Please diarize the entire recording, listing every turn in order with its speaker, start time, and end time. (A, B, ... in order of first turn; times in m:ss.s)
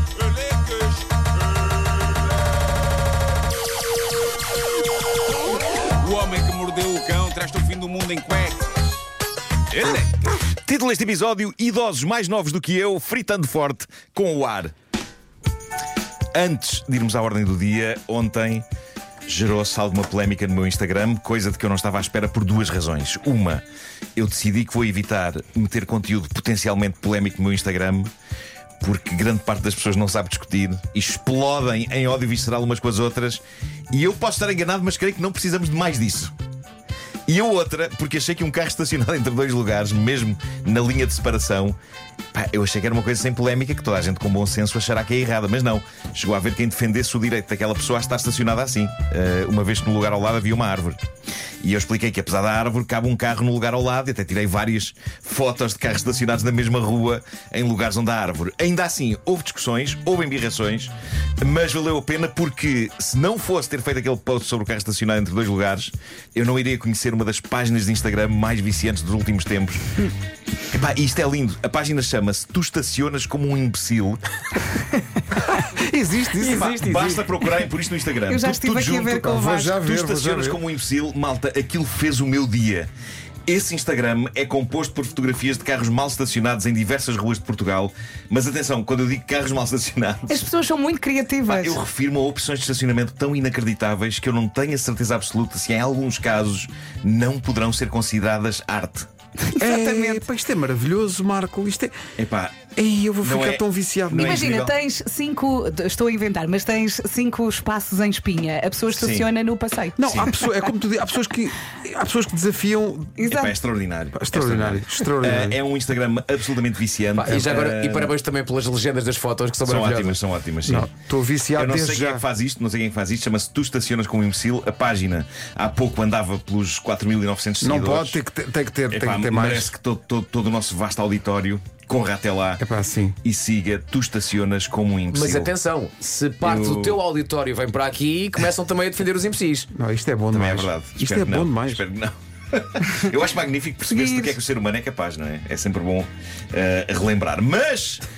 0:00.3-0:01.1 A
0:05.9-0:09.0 A
0:09.7-0:10.4 A
0:10.4-0:14.7 B
0:16.3-0:18.6 B
0:19.3-0:23.6 B
0:24.2-0:28.1 B
0:28.8-0:36.3 B
0:37.3-0:41.8 B
0:42.3-0:51.0 B
0:51.6-1:10.1 B
1:10.7-1:14.2 B
1:15.3-1:16.7 C
1:16.3-1:17.5 D
1:16.5-1:22.9 B
1:18.2-1:19.7 E
1:19.2-1:20.6 C
1:23.5-1:30.4 B
1:30.3-1:31.8 E
1:31.4-1:39.1 B
1:39.5-1:40.3 E
1:39.6-1:41.9 C
1:42.2-1:42.6 B
1:42.7-1:44.3 C
1:43.2-1:44.7 B
1:44.1-1:50.7 E
1:48.9-1:49.3 B
1:50.0-1:53.3 C
1:50.1-1:50.3 B
1:53.2-1:53.5 E
1:53.3-1:58.2 B
1:54.1-1:55.6 C
1:57.1-2:00.2 D
1:59.6-2:00.9 B
2:00.6-2:02.2 C
2:01.5-2:08.2 B
2:07.6-2:09.7 C
2:08.9-2:12.6 B
2:12.6-2:13.2 C
2:13.2-2:15.5 B
2:15.1-2:19.7 D
2:16.4-2:17.0 B
2:19.7-2:21.8 C
2:20.3-2:28.0 B